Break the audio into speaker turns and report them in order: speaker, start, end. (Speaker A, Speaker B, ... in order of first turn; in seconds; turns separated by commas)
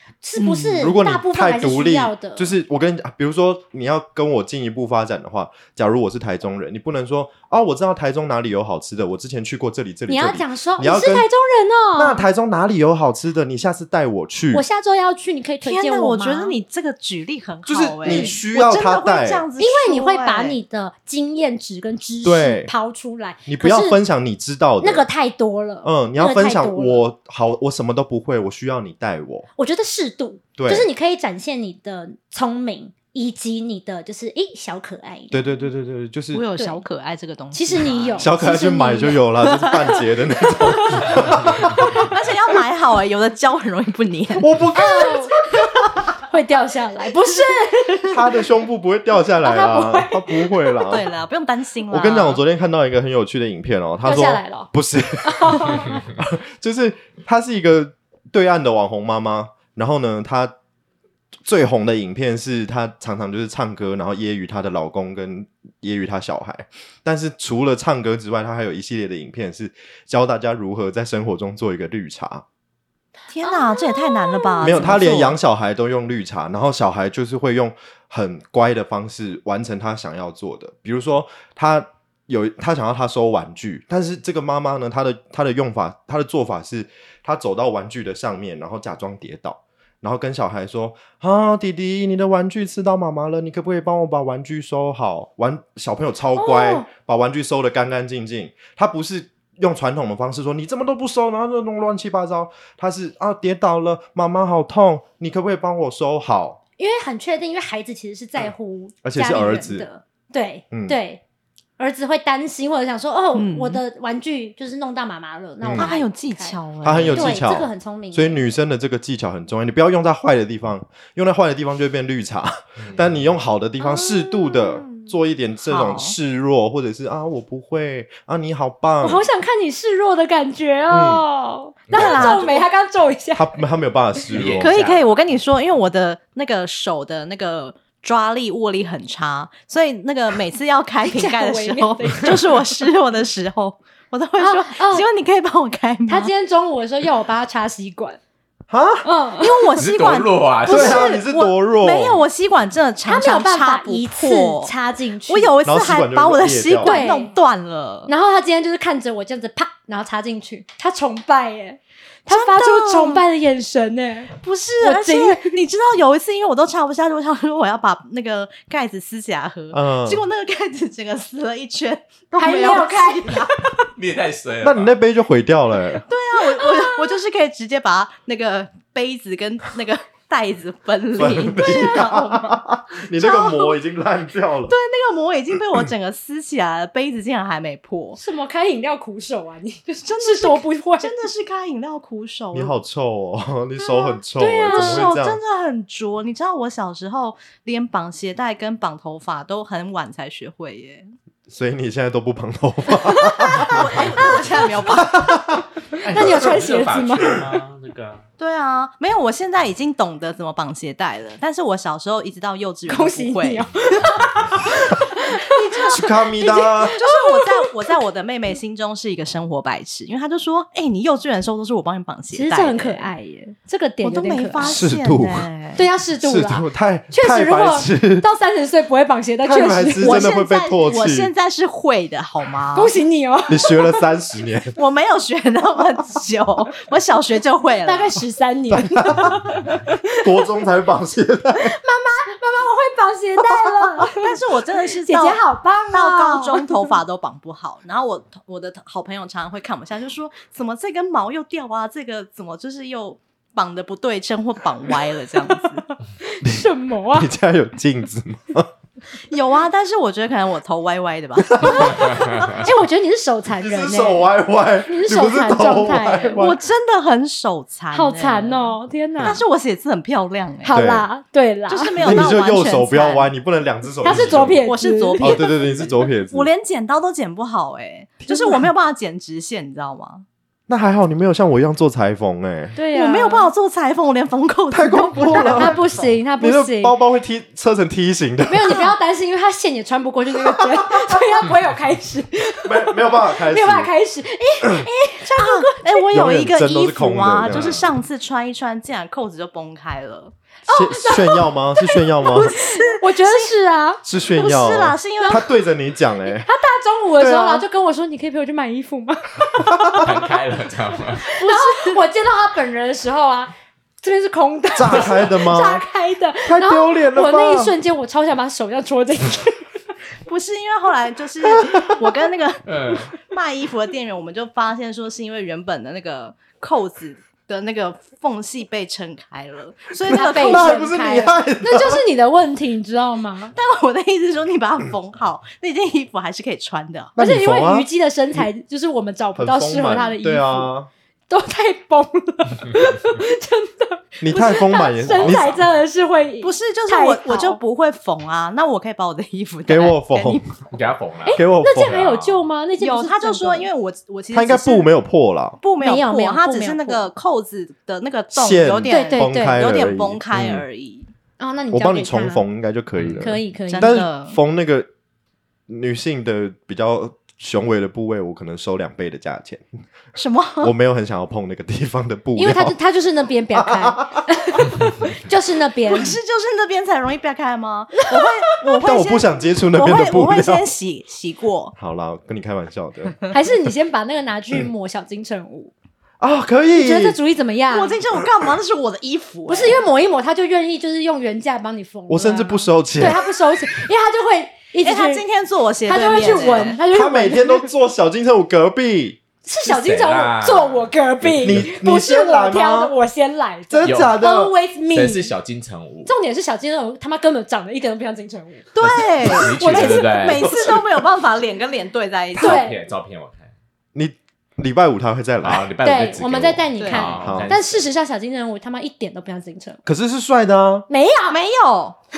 Speaker A: 0.2-2.5, Speaker B: 0.4-0.6, Speaker C: 0.5-11.3, Speaker A: 10.1-12.2, Speaker C: 11.9-14.6, Speaker A: 14.5-16.6, Speaker B: 15.6-20.6, Speaker C: 17.6-19.4, Speaker A: 18.0-18.4, Speaker A: 19.6-24.0, Speaker C: 22.2-22.7, Speaker C: 23.5-25.1, Speaker A: 24.8-27.0, Speaker C: 25.8-29.5, Speaker A: 29.6-35.5, Speaker C: 30.6-30.9, Speaker C: 35.3-36.4, Speaker B: 36.3-38.4, Speaker A: 36.6-36.8, Speaker A: 37.5-39.2, Speaker C: 38.2-42.1, Speaker B: 39.4-40.0, Speaker B: 42.0-44.6, Speaker C: 44.4-45.3, Speaker A: 44.7-45.3, Speaker A: 46.2-48.2, Speaker C: 48.1-51.1, Speaker A: 49.4-50.8, Speaker B: 50.9-52.4, Speaker C: 51.9-60.5, Speaker A: 54.0-54.7, Speaker A: 55.2-56.0, Speaker C: 61.4-72.4, Speaker B: 73.3-75.3, Speaker A: 73.4-75.0, Speaker C: 74.6-106.6, Speaker A: 96.3-96.9, Speaker A: 106.8-111.2, Speaker C: 109.0-109.9, Speaker A: 111.8-116.6, Speaker B: 113.3-113.8, Speaker C: 115.6-115.9, Speaker B: 115.7-117.5, Speaker C: 116.8-129.2, Speaker A: 117.1-118.4, Speaker D: 122.8-123.2, Speaker A: 123.8-125.1, Speaker B: 125.7-126.1, Speaker A: 129.0-133.6, Speaker C: 130.9-131.2, Speaker D: 131.9-132.2, Speaker B: 131.9-132.7, Speaker C: 133.3-134.8, Speaker D: 134.3-135.0, Speaker B: 134.5-146.3, Speaker A: 141.0-142.6, Speaker A: 144.4-145.1, Speaker A: 146.1-148.2, Speaker C: 148.7-149.1, Speaker A: 149.0-149.7, Speaker B: 149.4-154.7, Speaker D: 149.8-151.1, Speaker C: 150.7-152.2, Speaker A: 153.0-155.6, Speaker B: 155.3-158.1, Speaker C: 155.6-157.1, Speaker A: 156.8-157.3, Speaker A: 158.1-165.6, Speaker B: 162.3-163.2, Speaker B: 164.3-173.6, Speaker C: 169.7-170.2, Speaker A: 172.3-173.5, Speaker D: 173.9-174.9, Speaker C: 174.6-176.0, Speaker B: 176.1-182.6, Speaker A: 176.4-177.2, Speaker C: 181.1-184.7, Speaker A: 181.6-182.0, Speaker B: 183.2-183.8, Speaker B: 184.7-188.2, Speaker A: 188.2-191.3, Speaker B: 190.0-192.7, Speaker C: 192.5-195.4, Speaker B: 194.0-201.1, Speaker A: 194.3-195.1, Speaker C: 201.5-204.2, Speaker A: 203.2-204.7, Speaker B: 203.6-205.2, Speaker C: 204.9-206.5, Speaker D: 205.9-208.2, Speaker A: 206.1-207.4, Speaker B: 208.4-213.7, Speaker A: 212.9-217.8, Speaker B: 215.4-216.1, Speaker C: 215.9-217.0, Speaker B: 216.9-223.1, Speaker A: 222.3-224.8, Speaker B: 224.0-225.8, Speaker C: 224.6-225.5, Speaker A: 225.8-230.3, Speaker C: 226.2-228.2, Speaker C: 229.4-231.3, Speaker B: 229.9-233.0, Speaker A: 232.7-234.0, Speaker C: 233.5-234.8, Speaker B: 234.7-238.2, Speaker A: 237.8-240.4, Speaker C: 238.7-239.6, Speaker C: 240.2-241.8, Speaker A: 241.7-244.3, Speaker B: 244.0-255.8, Speaker A: 245.0-247.0, Speaker A: 255.2-257.3, Speaker C: 256.4-258.7, Speaker B: 259.3-262.7, Speaker A: 261.6-264.3, Speaker C: 263.6-266.6, Speaker A: 264.9-266.4, Speaker B: 266.3-270.8, Speaker A: 267.9-269.4, Speaker A: 270.6-272.3, Speaker C: 270.7-271.1, Speaker B: 271.7-273.3, Speaker C: 272.0-274.6, Speaker A: 274.0-275.4, Speaker B: 274.2-280.2, Speaker C: 275.2-276.5, Speaker C: 278.2-278.7, Speaker C: 280.7-282.8, Speaker A: 282.7-283.5, Speaker B: 282.9-286.1, Speaker C: 284.7-285.8, Speaker A: 285.2-287.0, Speaker C: 286.4-288.9, Speaker A: 288.4-296.0, Speaker C: 290.3-291.2, Speaker C: 292.6-293.9, Speaker B: 295.2-300.3, Speaker C: 296.1-297.8, Speaker D: 297.5-297.9, Speaker A: 300.6-304.0, Speaker C: 300.7-302.6, Speaker B: 302.3-303.5, Speaker C: 304.0-306.5, Speaker B: 304.2-305.4, Speaker A: 305.2-305.5, Speaker A: 306.2-310.1, Speaker C: 307.2-307.6, Speaker C: 309.6-310.1, Speaker D: 309.9-311.3, Speaker A: 311.2-319.7, Speaker B: 311.5-311.9, Speaker C: 314.7-315.8, Speaker C: 316.4-317.8, Speaker B: 320.3-330.9, Speaker D: 322.7-323.1, Speaker C: 330.1-332.0, Speaker A: 330.1-333.6, Speaker B: 333.5-337.1, Speaker C: 337.1-338.4, Speaker A: 337.2-340.7, Speaker C: 339.4-340.9, Speaker A: 341.3-347.6, Speaker C: 344.2-345.6, Speaker B: 345.1-345.4, Speaker B: 346.4-350.8, Speaker C: 349.7-350.4, Speaker D: 350.7-352.4, Speaker A: 351.2-353.7, Speaker C: 351.3-352.0, Speaker B: 352.8-354.9, Speaker C: 354.3-355.6, Speaker B: 355.6-361.1, Speaker A: 355.8-357.1, Speaker C: 358.3-360.6, Speaker A: 358.9-359.6, Speaker A: 361.4-362.4, Speaker C: 361.7-364.9, Speaker D: 362.9-363.2, Speaker A: 363.2-364.0, Speaker B: 363.7-364.4, Speaker C: 365.7-369.6, Speaker B: 370.1-370.7, Speaker C: 370.6-372.8, Speaker A: 372.4-376.2, Speaker C: 373.5-374.2, Speaker B: 375.9-381.7, Speaker C: 378.6-380.7, Speaker C: 381.8-383.3, Speaker A: 383.3-385.7, Speaker C: 386.2-387.2, Speaker A: 386.7-388.0, Speaker B: 387.7-389.8, Speaker A: 389.5-395.2, Speaker C: 392.1-393.2, Speaker B: 394.8-396.8, Speaker A: 395.8-397.7, Speaker C: 396.9-399.2, Speaker A: 399.4-405.3, Speaker D: 399.6-401.7, Speaker C: 401.4-402.9, Speaker C: 403.7-404.5, Speaker D: 403.8-404.2, Speaker D: 404.9-406.1, Speaker A: 406.1-408.7, Speaker B: 408.7-412.6, Speaker D: 408.8-410.8, Speaker A: 409.2-410.2, Speaker A: 412.4-412.8, Speaker D: 412.4-413.5, Speaker C: 413.9-415.7, Speaker D: 415.4-417.8, Speaker A: 415.8-419.8, Speaker B: 416.8-417.2, Speaker C: 417.1-417.5, Speaker C: 419.8-420.9, Speaker A: 420.9-421.4, Speaker B: 421.3-422.0